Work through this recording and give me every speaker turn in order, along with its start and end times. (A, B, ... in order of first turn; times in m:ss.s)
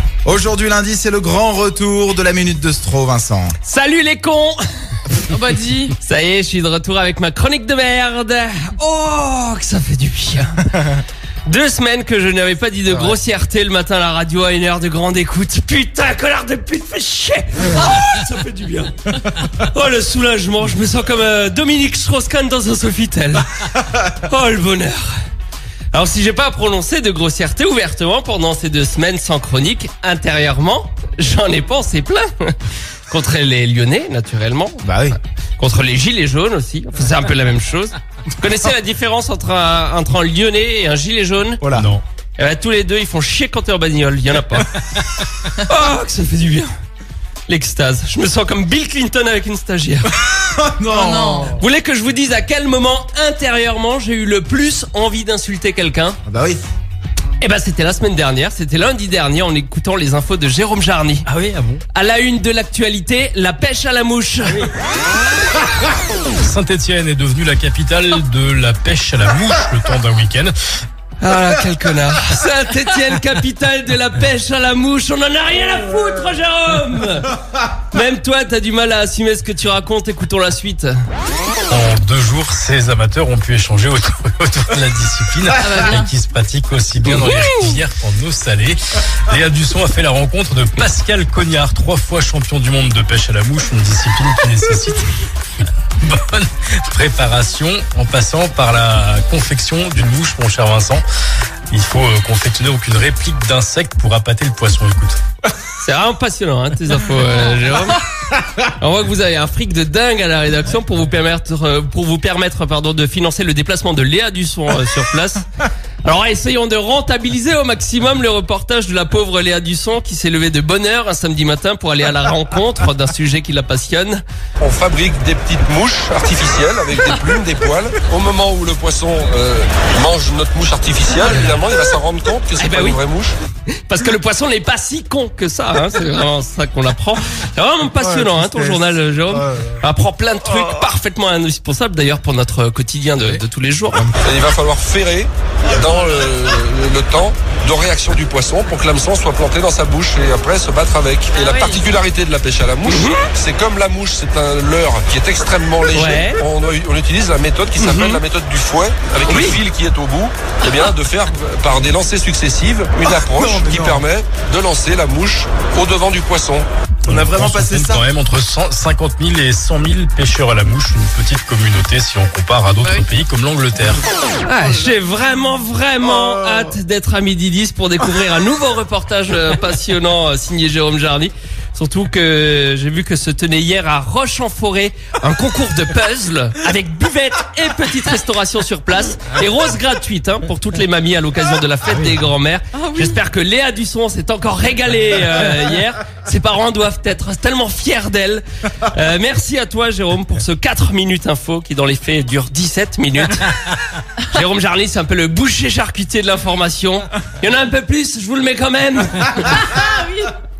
0:00.2-0:03.5 A
0:03.6-0:04.6 B
0:05.3-0:05.9 C
0:06.0-0:10.7 B
0:11.5-0:25.1 B
0:25.9-0:32.6 B
0:33.1-0:41.6 B
0:34.8-0:35.1 A
0:41.6-0:41.9 A
0:41.7-0:42.0 D
0:42.4-0:44.7 B
0:45.5-0:46.7 B
0:47.5-0:50.1 B
0:50.3-0:51.6 A
0:50.9-0:51.5 C
0:51.5-0:56.2 B
0:56.2-0:56.6 A
0:57.4-1:01.3 B
1:01.2-1:01.8 D
1:01.9-1:04.7 B
1:06.2-1:10.5 D
1:11.2-1:21.0 B
1:21.7-1:35.1 D
1:25.6-1:26.1 C
1:36.0-1:41.0 D
1:41.7-1:45.2 D
1:45.8-1:48.0 B
1:48.6-1:55.5 B
1:56.0-2:04.2 B
2:04.6-2:13.4 E
2:12.6-2:13.0 B
2:13.7-2:24.1 B
2:18.0-2:19.7 A
2:24.2-2:46.7 E
2:31.3-2:31.8 C
2:32.8-2:33.2 B
2:35.9-2:36.4 B
2:37.8-2:38.2 B
2:39.2-2:39.6 B
2:43.0-2:44.0 A
2:47.0-2:48.0 A
2:47.0-2:54.0 D
2:54.4-3:23.5 B
3:12.8-3:13.2 C
3:24.2-3:29.7 B
3:29.5-3:30.3 C